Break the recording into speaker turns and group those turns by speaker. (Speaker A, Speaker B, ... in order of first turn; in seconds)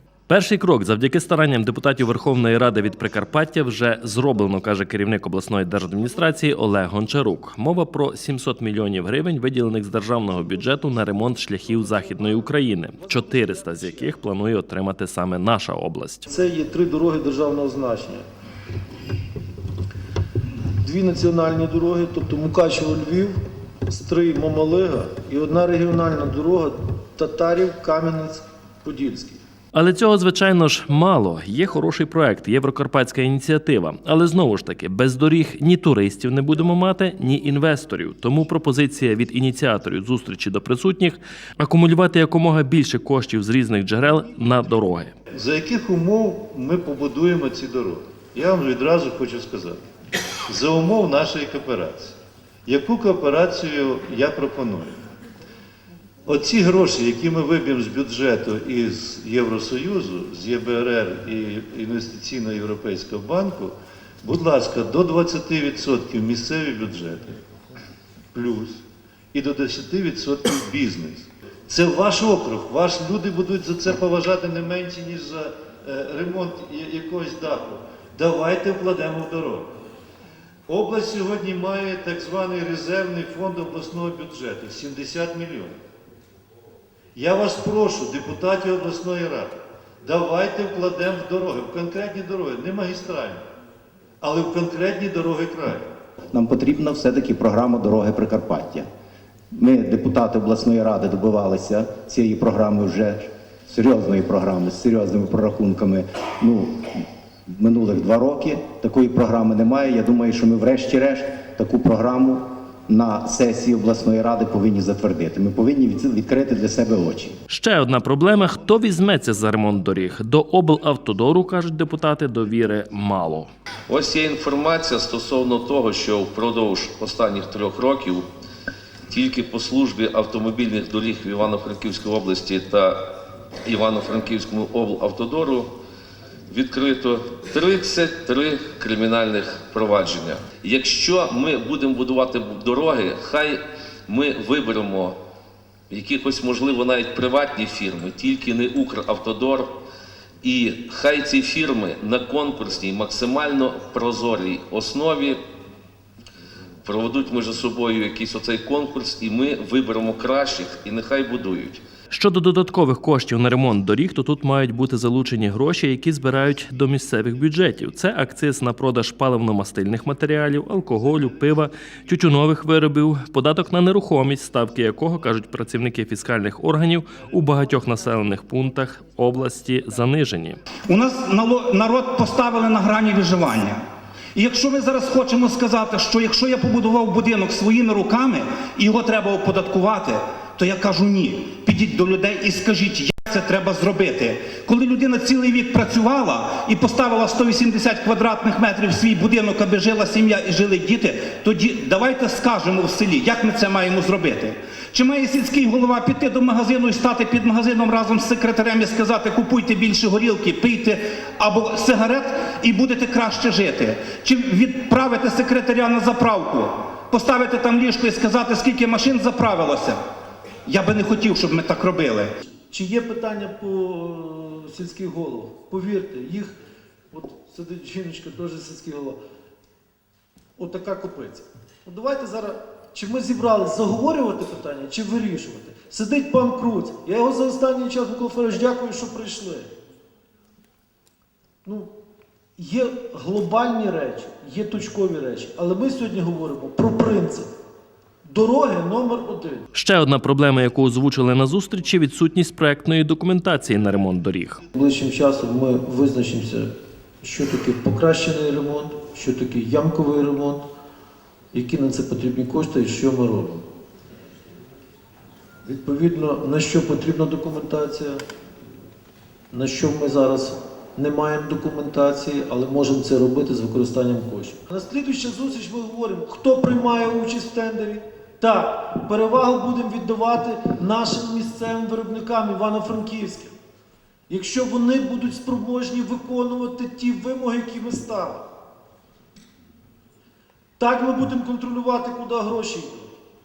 Speaker A: 0.3-16.3, 29.7-45.1, 117.5-123.5, 162.1-180.6, 249.7-254.6
Speaker B: 11.6-14.1, 16.3-18.3, 20.8-29.4, 222.7-226.6, 227.1-229.2, 230.6-239.7, 241.6-241.9, 242.6-247.5, 248.2-249.7, 254.7-260.7, 261.5-263.7, 265.6-268.2, 269.5-283.6, 284.3-288.5, 290.8-293.1
Speaker C: 45.3-49.8, 50.5-55.0, 56.3-67.4, 68.3-79.7, 80.7-85.8, 87.2-93.4, 94.2-95.9
Speaker D: 96.3-98.9, 99.5-106.9, 107.5-117.4
Speaker E: 123.9-128.3, 129.1-133.1, 133.7-135.7, 136.5-145.2, 145.9-149.8, 150.4-155.4, 156.8-161.8
Speaker F: 180.9-183.8, 184.3-220.0, 220.7-222.3